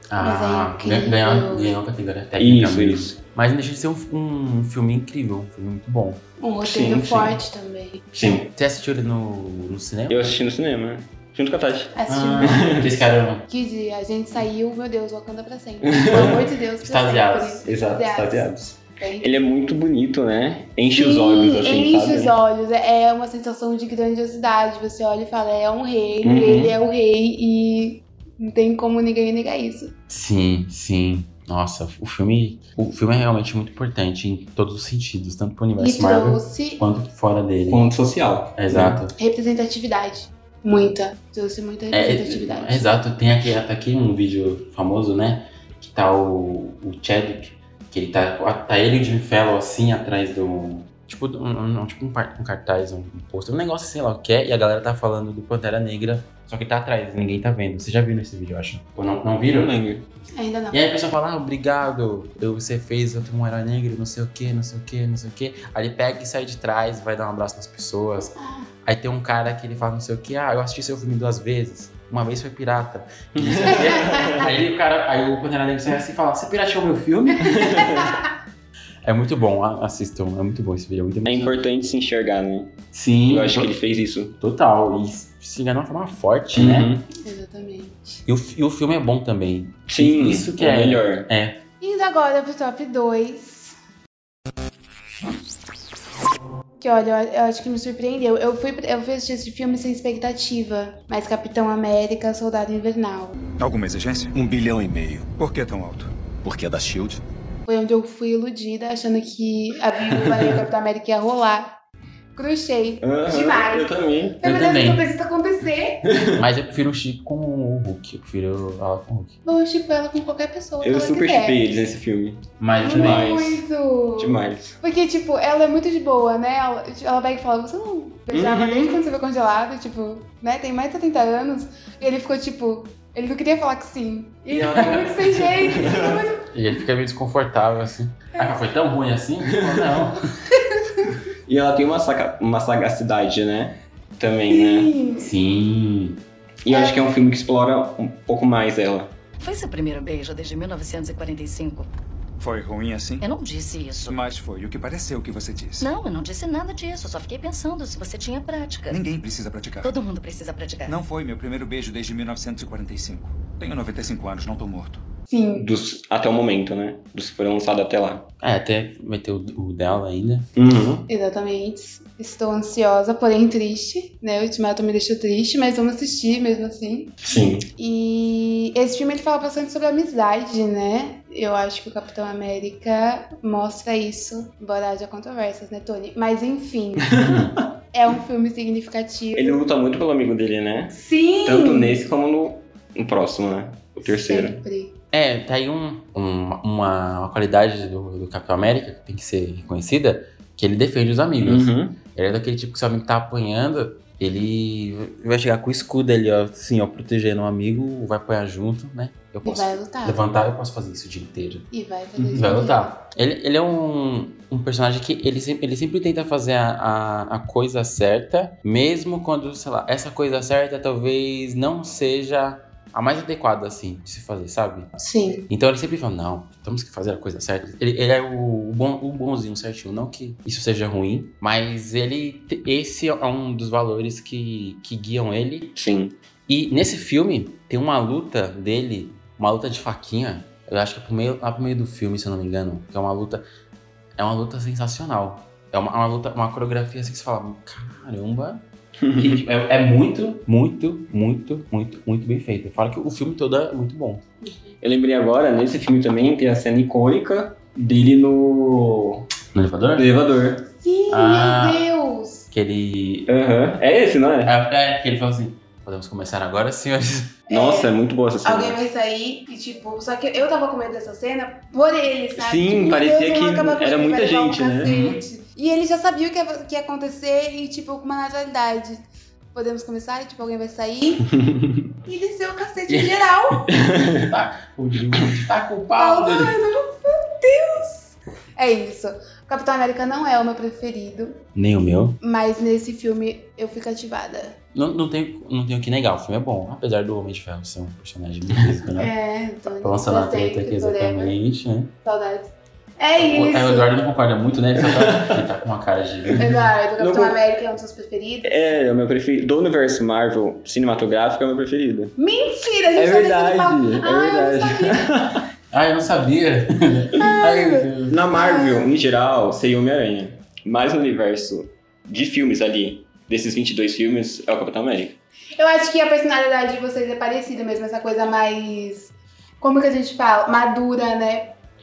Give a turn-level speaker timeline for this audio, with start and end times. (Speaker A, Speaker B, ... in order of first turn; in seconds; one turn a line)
Speaker A: 0.1-6.2
Speaker B: 0.2-1.7
Speaker C: 2.4-3.1
Speaker B: 6.4-8.0
Speaker C: 6.6-7.4
Speaker C: 8.1-8.5
Speaker A: 8.5-10.3
Speaker C: 10.1-12.9
Speaker B: 11.9-12.7
Speaker A: 12.1-13.4
Speaker B: 13.5-19.3
Speaker C: 15.8-16.4
Speaker A: 16.8-17.6
Speaker C: 17.6-22.3
Speaker B: 20.9-29.9
Speaker C: 26.2-26.8
Speaker A: 30.1-37.9
Speaker B: 35.8-36.8
Speaker C: 37.7-39.0
Speaker A: 38.5-39.1
Speaker B: 39.2-43.0
Speaker A: 41.9-59.7
Speaker C: 59.5-60.0
Speaker B: 60.4-60.9
Speaker A: 60.7-78.0
Speaker B: 68.4-68.7
Speaker C: 73.3-74.5
Speaker C: 77.5-78.1
Speaker A: 79.0-81.5
Speaker C: 81.2-84.3
Speaker A: 82.9-83.8
Speaker A: 84.4-86.9
Speaker C: 86.5-87.0
Speaker B: 87.2-88.2
Speaker A: 88.3-91.6
Speaker C: 89.9-91.3
Speaker B: 91.8-93.8
Speaker B: 96.8-103.4
Speaker D: 103.6-107.2
Speaker B: 107.7-111.8
Speaker B: 112.3-113.9
Speaker C: 113.0-114.4
Speaker B: 114.4-116.0
Speaker A: 114.4-115.1
Speaker C: 116.1-116.4
Speaker A: 116.3-119.3
Speaker B: 119.4-121.6
Speaker C: 120.8-123.6
Speaker A: 122.6-123.3
Speaker B: 122.8-136.4
Speaker C: 124.2-124.8
Speaker C: 128.3-129.0
Speaker C: 134.6-136.2
Speaker A: 134.6-135.1
Speaker A: 136.5-140.2
Speaker C: 139.6-140.0
Speaker B: 140.5-141.1
Speaker C: 141.4-144.9
Speaker B: 144.5-145.3
Speaker A: 145.2-146.2
Speaker C: 146.6-149.1
Speaker B: 146.7-147.0
Speaker E: 149.4-151.9
Speaker D: 152.4-153.2
Speaker E: 153.2-154.2
Speaker D: 154.1-155.9
Speaker E: 155.8-159.0
Speaker D: 158.9-159.9
Speaker E: 159.8-161.0
Speaker D: 160.8-165.0
Speaker B: 165.3-165.6
Speaker C: 165.5-168.3
Speaker A: 168.4-170.5
Speaker C: 170.5-171.1
Speaker B: 171.1-177.2
Speaker C: 177.2-177.7
Speaker B: 177.8-187.2
Speaker C: 187.1-187.4
Speaker A: 187.2-187.5
Speaker B: 187.9-189.6
Speaker C: 189.3-194.6
Speaker B: 190.9-192.0
Speaker B: 194.0-194.9
Speaker A: 195.1-211.7
Speaker C: 201.4-202.0
Speaker B: 209.4-210.2
Speaker B: 211.7-212.9
Speaker A: 212.3-224.9
Speaker B: 225.0-225.4
Speaker A: 225.5-235.7
Speaker C: 235.7-236.2
Speaker A: 236.5-243.4
Speaker A: 244.2-248.6
Speaker C: 249.0-249.4
Speaker A: 249.1-254.2
Speaker B: 254.4-254.7
Speaker C: 254.8-259.3
Speaker A: 259.5-260.1
Speaker C: 259.9-260.7
Speaker B: 260.8-262.5
Speaker A: 261.1-261.8
Speaker A: 262.5-263.3
Speaker C: 263.3-264.5
Speaker A: 264.4-267.4
Speaker B: 267.5-267.9
Speaker C: 267.5-268.8
Speaker B: 268.4-279.0
Speaker C: 272.4-275.1
Speaker A: 274.8-275.2
Speaker B: 279.5-281.3
Speaker C: 281.3-281.8
Speaker B: 282.0-283.7
Speaker A: 282.9-286.6
Speaker C: 283.7-284.3
Speaker B: 286.0-291.4
Speaker A: 291.5-292.2
Speaker B: 292.2-294.6
Speaker A: 294.7-299.1
Speaker B: 299.0-301.4
Speaker A: 299.7-301.9
Speaker B: 302.0-303.9
Speaker A: 303.2-306.7
Speaker C: 304.8-305.4
Speaker C: 306.3-307.4
Speaker B: 306.4-308.5
Speaker C: 308.4-312.1
Speaker B: 312.2-315.0
Speaker C: 312.9-315.4
Speaker A: 315.7-318.2
Speaker B: 317.2-318.9
Speaker C: 318.1-325.2
Speaker B: 325.6-331.5